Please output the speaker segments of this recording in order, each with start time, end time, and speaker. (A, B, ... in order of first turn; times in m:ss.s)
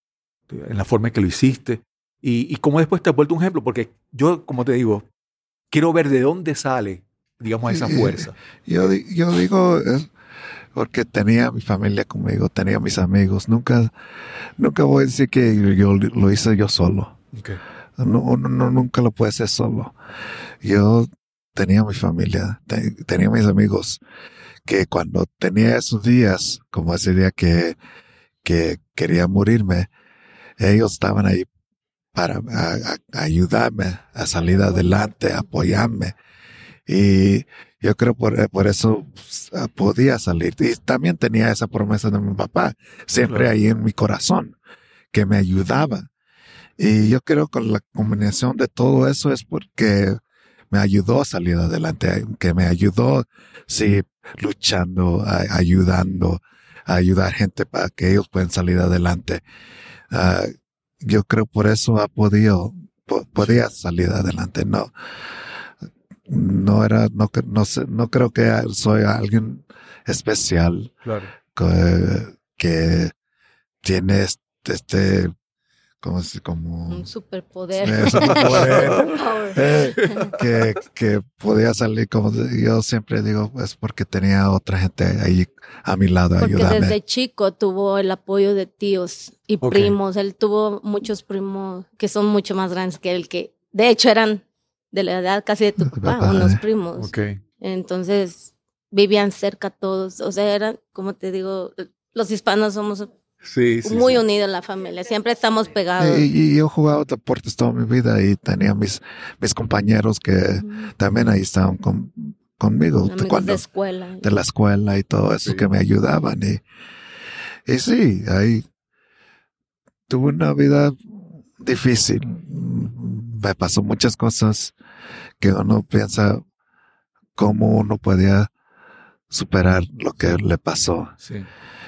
0:00.5-0:05.0 A
0:05.7-0:08.8 A
0:07.7-0:10.1 B
0:10.7-0:13.9 B
0:14.6-0:17.2 B
0:17.3-0:17.6 A
0:18.0-0:19.9 B
0:20.6-0:24.0 B
0:24.6-0:27.8 B
0:28.4-0:29.9 B
0:30.6-0:31.5 B
0:32.1-0:36.1 B
0:36.9-0:44.5 B
0:43.2-0:43.5 A
0:45.1-0:46.1 B
0:46.8-0:50.2 B
0:50.7-0:59.4 B
1:00.1-1:04.9 B
1:03.4-1:03.6 A
1:06.3-1:10.9 B
1:11.0-1:11.3 A
1:11.5-1:13.1 B
1:13.8-1:15.3 B
1:16.0-1:17.1 B
1:16.9-1:20.3 C
1:17.8-1:27.0 B
1:18.2-1:19.0 A
1:20.0-1:20.3 A
1:26.4-1:43.1 C
1:29.6-1:30.0 A
1:35.9-1:36.6 B
1:37.0-1:37.4 A
1:43.4-1:44.2 A
1:43.8-1:46.3 C
1:46.0-1:53.6 B
1:50.5-1:50.9 C
1:53.0-1:54.3 C
1:54.2-1:56.6 B
1:55.4-1:55.7 A
1:57.7-1:58.6 B
2:00.1-2:01.0 B
2:01.6-2:04.7 B
2:05.4-2:06.4 B
2:07.4-2:08.5 B
2:09.3-2:11.1 B
2:11.2-2:11.5 A